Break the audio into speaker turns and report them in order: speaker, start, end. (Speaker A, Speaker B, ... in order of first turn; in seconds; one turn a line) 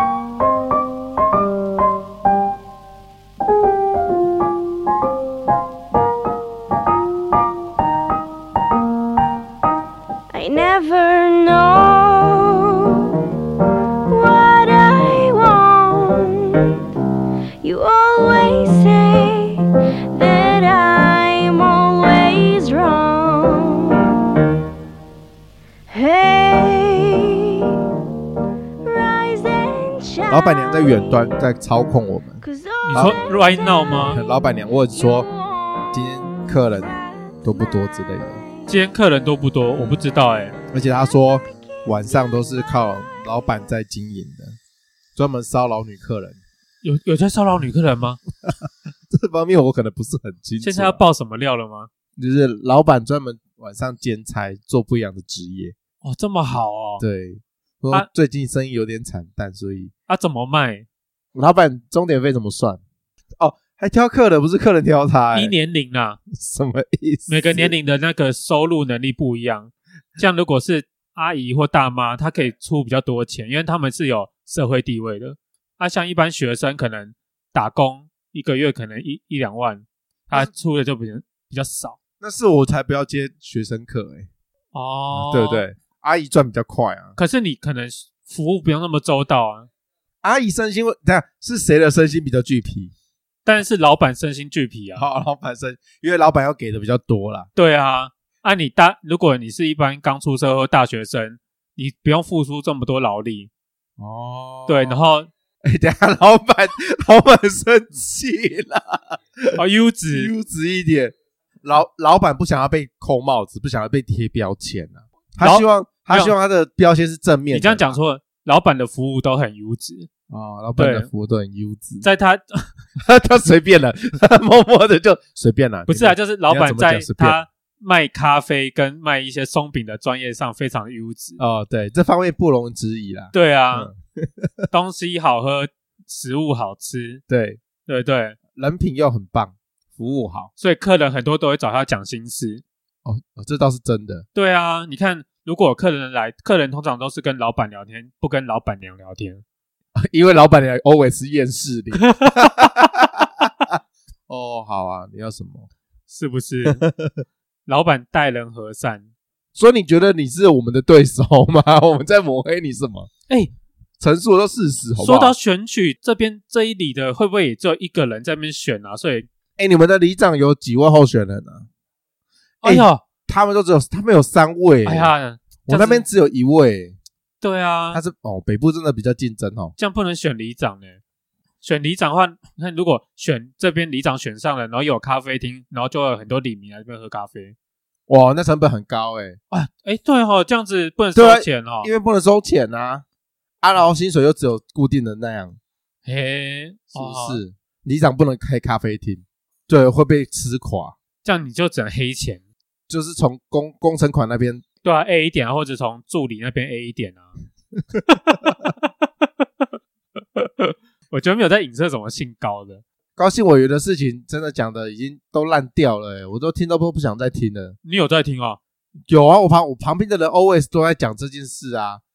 Speaker A: 10.3-13.1
Speaker A: 14.1-16.7
Speaker A: 17.6-24.1
Speaker A: 25.9-27.8
Speaker A: 28.8-31.2
Speaker B: 30.3-32.4
Speaker A: 32.4-35.9
Speaker C: 32.8-34.2
Speaker B: 34.1-35.3
Speaker B: 35.9-38.4
Speaker C: 38.7-40.5
Speaker B: 40.7-44.6
Speaker B: 45.1-46.4
Speaker C: 46.8-48.2
Speaker B: 48.5-51.0
Speaker C: 50.6-51.9
Speaker B: 52.2-55.7
Speaker C: 56.0-57.0
Speaker B: 57.0-59.9
Speaker C: 60.1-60.9
Speaker B: 61.3-62.8
Speaker B: 63.4-65.5
Speaker C: 65.3-66.2
Speaker B: 66.3-67.7
Speaker C: 67.3-82.0
Speaker B: 82.2-84.3
Speaker C: 84.7-85.6
Speaker B: 85.1-87.2
Speaker C: 87.2-89.7
Speaker B: 90.2-92.9
Speaker C: 93.4-95.0
Speaker B: 95.0-97.5
Speaker C: 97.5-103.5
Speaker B: 104.0-105.0
Speaker C: 104.7-105.3
Speaker B: 105.6-109.6
Speaker C: 109.5-110.3
Speaker B: 110.1-118.0
Speaker C: 115.4-116.3
Speaker C: 117.5-120.1
Speaker B: 120.3-122.0
Speaker C: 120.8-121.1
Speaker C: 122.0-122.7
Speaker B: 123.0-127.4
Speaker C: 125.8-131.4
Speaker B: 131.4-134.7
Speaker C: 133.3-133.9
Speaker C: 134.7-137.2
Speaker B: 137.3-137.6
Speaker C: 137.9-138.4
Speaker B: 138.5-140.5
Speaker C: 140.6-142.6
Speaker B: 143.0-144.2
Speaker C: 144.3-149.4
Speaker B: 149.9-153.8
Speaker C: 152.0-152.7
Speaker B: 154.3-155.7
Speaker C: 156.1-156.8
Speaker B: 156.6-157.2
Speaker C: 157.7-159.1
Speaker B: 159.5-163.1
Speaker B: 164.0-165.3
Speaker C: 165.0-169.3
Speaker B: 169.6-171.7
Speaker C: 172.6-173.0
Speaker B: 172.6-175.1
Speaker C: 174.8-176.1
Speaker B: 175.7-177.0
Speaker C: 177.4-178.0
Speaker B: 177.9-179.7
Speaker C: 179.8-181.0
Speaker C: 181.6-187.5
Speaker B: 188.1-189.4
Speaker C: 189.5-191.9
Speaker B: 191.1-193.0
Speaker B: 193.6-195.6
Speaker C: 196.0-197.4
Speaker B: 196.9-200.9
Speaker C: 201.2-202.4
Speaker B: 202.9-204.6
Speaker C: 204.8-207.3
Speaker C: 208.1-208.9
Speaker C: 210.3-212.8
Speaker B: 213.2-217.8
Speaker C: 217.8-218.6
Speaker B: 219.1-222.0